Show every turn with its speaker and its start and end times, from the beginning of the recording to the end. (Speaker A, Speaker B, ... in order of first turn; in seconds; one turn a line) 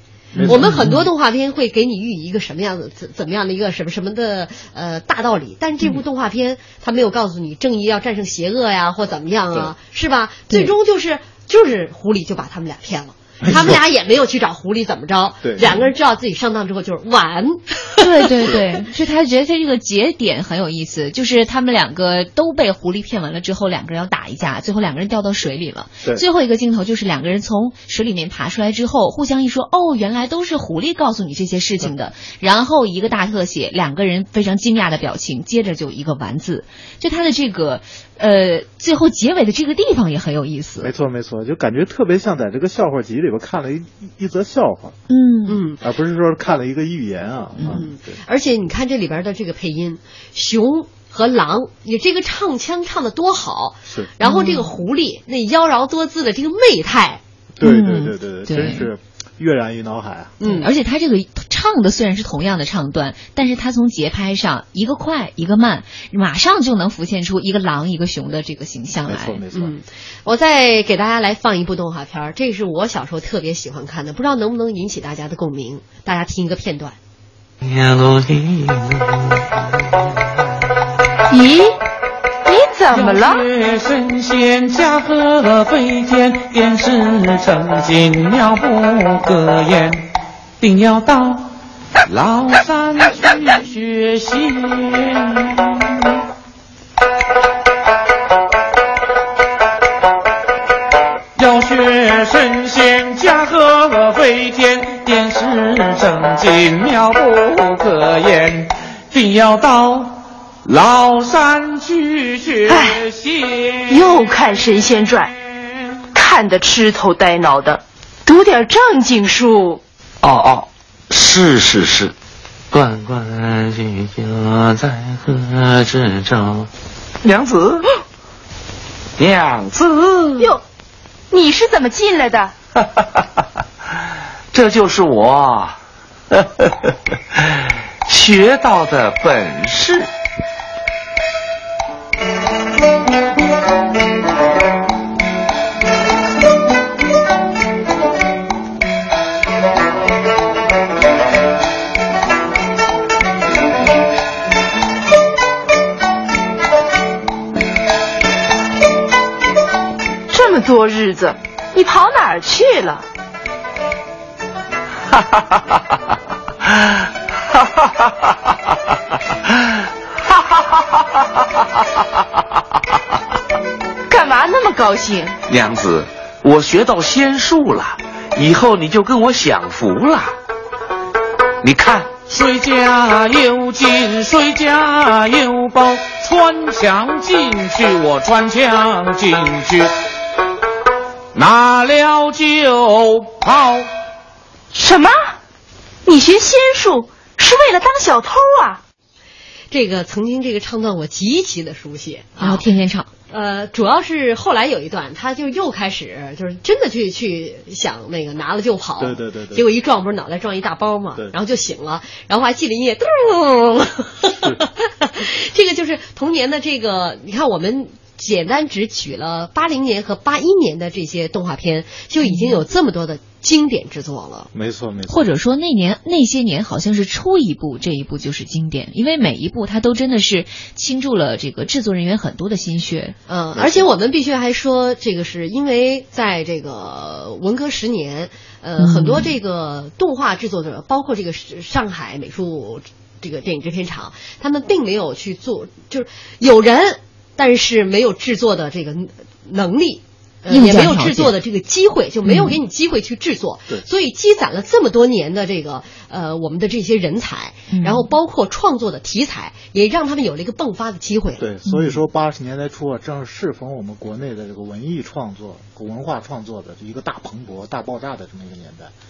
Speaker A: 0.3-0.9
Speaker B: 0.4-1.1
Speaker C: 0.5-17.6
Speaker A: 13.4-13.8
Speaker A: 15.4-15.7
Speaker B: 18.0-40.9
Speaker A: 40.8-45.0
Speaker B: 45.1-45.6
Speaker C: 45.5-45.8
Speaker A: 45.8-48.2
Speaker C: 47.6-57.2
Speaker B: 54.2-54.7
Speaker A: 57.6-60.4
Speaker B: 57.6-58.9
Speaker C: 60.4-60.7
Speaker B: 60.4-69.4
Speaker A: 69.0-69.7
Speaker C: 69.5-77.0
Speaker D: 77.6-79.8
Speaker E: 81.3-81.8
Speaker E: 82.4-83.4
Speaker F: 82.9-90.0
Speaker F: 90.6-91.5
Speaker F: 92.1-95.9
Speaker F: 101.3-114.0
Speaker E: 112.7-113.0
Speaker E: 113.9-115.3
Speaker E: 116.1-119.8
Speaker D: 120.2-122.1
Speaker D: 122.7-126.7
Speaker D: 127.2-127.8
Speaker D: 129.2-130.4
Speaker E: 131.3-132.5
Speaker D: 134.5-135.8
Speaker D: 138.1-140.1
Speaker E: 160.3-163.0
Speaker E: 174.1-175.3
Speaker D: 175.5-180.3
Speaker D: 181.6-182.1
Speaker F: 182.3-189.9
Speaker F: 191.3-193.9
Speaker E: 194.7-195.3
Speaker E: 196.1-198.8
Speaker C: 199.7-202.6
Speaker B: 202.4-203.1
Speaker C: 203.3-224.5
Speaker A: 209.0-209.7
Speaker B: 222.2-222.6
Speaker A: 224.5-225.2
Speaker B: 225.1-233.2
Speaker C: 233.3-261.4
Speaker A: 233.5-233.9
Speaker B: 238.8-239.3
Speaker B: 250.5-251.3
Speaker B: 252.2-252.6
Speaker B: 257.7-258.1
Speaker A: 261.4-268.9
Speaker B: 261.6-262.0